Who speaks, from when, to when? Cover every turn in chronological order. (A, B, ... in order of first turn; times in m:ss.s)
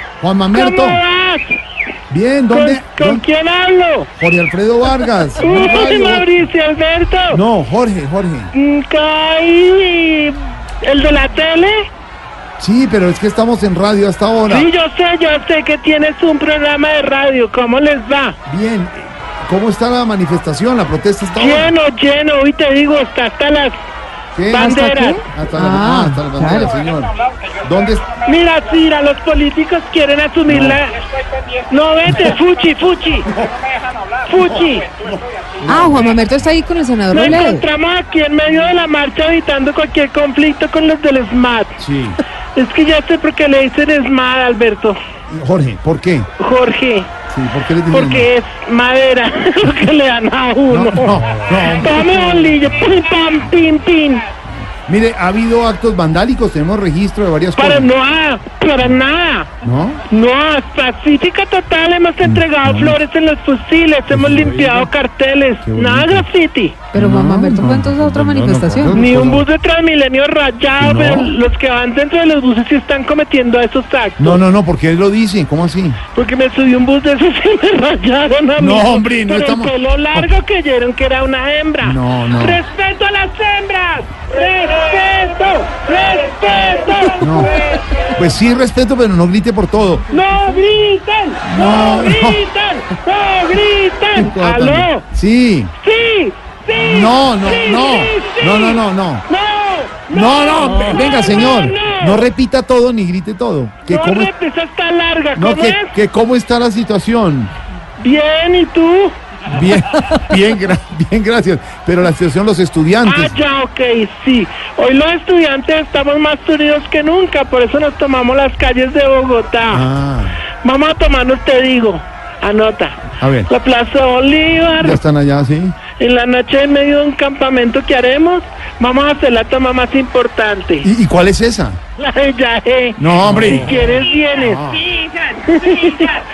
0:00.2-0:01.0 A
0:00.5-0:01.6 B
0:02.1-0:03.2 A
0:02.5-0:04.1 B
0:04.2-0:06.3 A
0:05.4-0:07.4 B
0:07.3-0:08.5 A
0:08.5-0:11.9 B
0:12.6-0:14.7 A
0:14.4-0:18.4 B
0:18.4-0:21.7 A
0:21.3-0:23.8 B
0:24.3-0:28.0 A
0:24.5-0:25.2 B
0:24.5-0:26.7 C
0:28.2-0:31.0 B
0:30.5-0:30.8 A
0:31.6-0:33.3 B
0:34.2-0:34.9 B
0:35.0-0:36.1 A
0:35.6-0:37.6 C
0:37.1-0:41.8 B
0:41.8-0:42.2 A
0:42.5-0:45.0 B
0:45.3-0:46.3 A
0:46.4-0:47.1 B
0:47.3-0:48.3 A
0:47.9-0:54.2 B
0:50.7-0:52.5 A
0:54.7-0:57.9 A
0:57.6-0:59.5 B
0:59.6-1:00.0 A
1:00.1-1:06.8 B
1:02.2-1:03.0 A
1:04.1-1:04.9 A
1:05.6-1:06.3 A
1:06.9-1:09.0 C
1:06.9-1:09.4 A
1:08.9-1:14.4 B
1:10.8-1:11.3 A
1:14.2-1:16.0 A
1:16.1-1:28.1 B
1:18.6-1:20.3 A
1:21.8-1:22.6 A
1:27.2-1:27.5 A
1:28.1-1:30.0 A
1:30.1-1:35.0 B
1:31.4-1:32.4 A
1:34.1-1:35.7 A
1:35.8-1:42.2 B
1:36.7-1:39.2 A
1:40.1-1:44.3 A
1:43.8-1:45.9 B
1:45.3-1:47.5 A
1:48.0-1:49.2 B
1:49.4-1:53.4 A
1:53.0-1:59.8 B
1:59.7-2:00.4 A
2:00.6-2:05.0 B
2:03.2-2:03.5 A
2:04.8-2:05.8 A
2:06.0-2:10.9 B
2:10.8-2:11.8 A
2:12.0-2:16.2 B
2:13.0-2:13.8 A
2:14.3-2:14.9 A